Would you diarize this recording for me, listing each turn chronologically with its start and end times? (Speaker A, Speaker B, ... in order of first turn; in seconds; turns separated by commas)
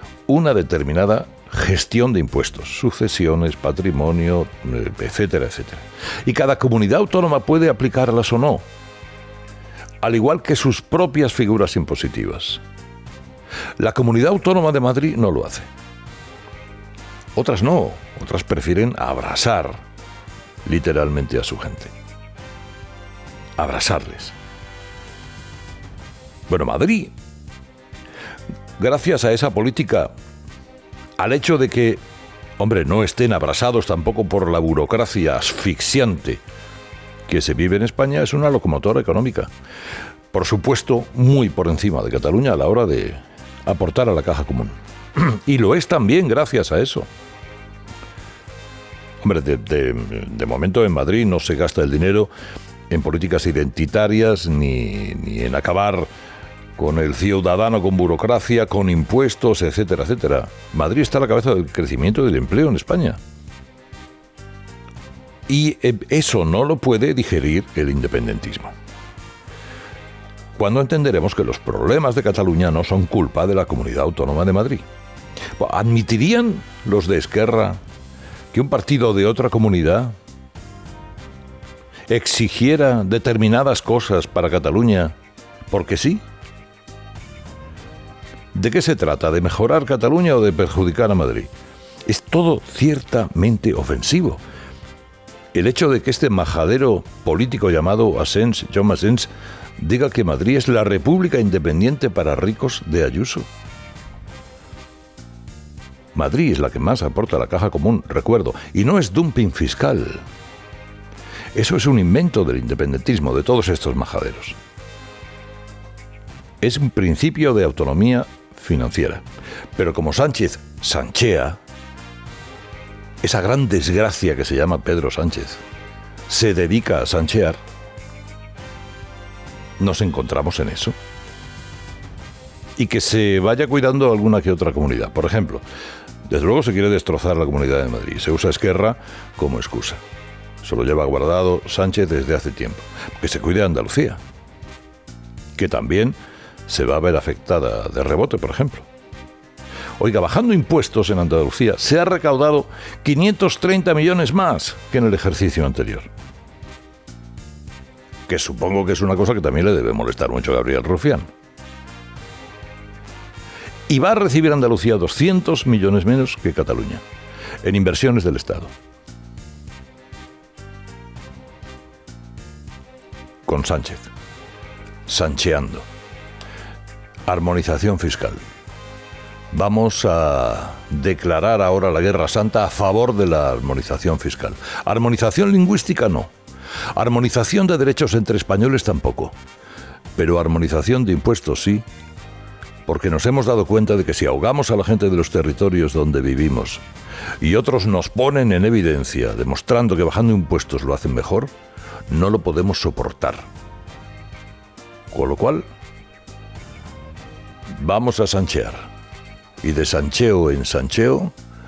Speaker A: 0.3-8.7, Speaker A: 10.0-12.6, Speaker A: 13.8-15.7, Speaker A: 17.4-19.8, Speaker A: 20.6-21.9, Speaker A: 23.6-24.4, Speaker A: 26.5-27.1, Speaker A: 28.8-30.1, Speaker A: 31.2-32.0, Speaker A: 32.6-36.4, Speaker A: 37.3-39.5, Speaker A: 40.3-47.1, Speaker A: 49.2-52.3, Speaker A: 52.9-56.1, Speaker A: 56.8-63.2, Speaker A: 65.5-68.7, Speaker A: 70.6-74.8, Speaker A: 75.6-77.8, Speaker A: 78.5-80.2, Speaker A: 82.1-85.1, Speaker A: 85.7-86.2, Speaker A: 88.5-91.5, Speaker A: 92.1-94.4, Speaker A: 95.5-103.5, Speaker A: 106.2-110.2, Speaker A: 111.5-114.6, Speaker A: 116.6-119.2, Speaker A: 119.8-121.6, Speaker A: 123.2-125.6, Speaker A: 126.3-127.6, Speaker A: 129.8-131.0, Speaker A: 132.8-135.6, Speaker A: 136.3-140.0, Speaker A: 140.6-144.2, Speaker A: 145.6-148.9, Speaker A: 150.0-156.1, Speaker A: 158.3-161.3, Speaker A: 163.9-167.0, Speaker A: 167.6-168.7, Speaker A: 173.5-174.1, Speaker A: 175.1-175.9, Speaker A: 177.3-178.4, Speaker A: 179.5-186.3, Speaker A: 186.9-189.4, Speaker A: 190.2-191.8, Speaker A: 192.9-196.8, Speaker A: 197.4-201.5, Speaker A: 202.1-203.5, Speaker A: 205.1-205.7, Speaker A: 207.7-208.9, Speaker A: 209.6-211.3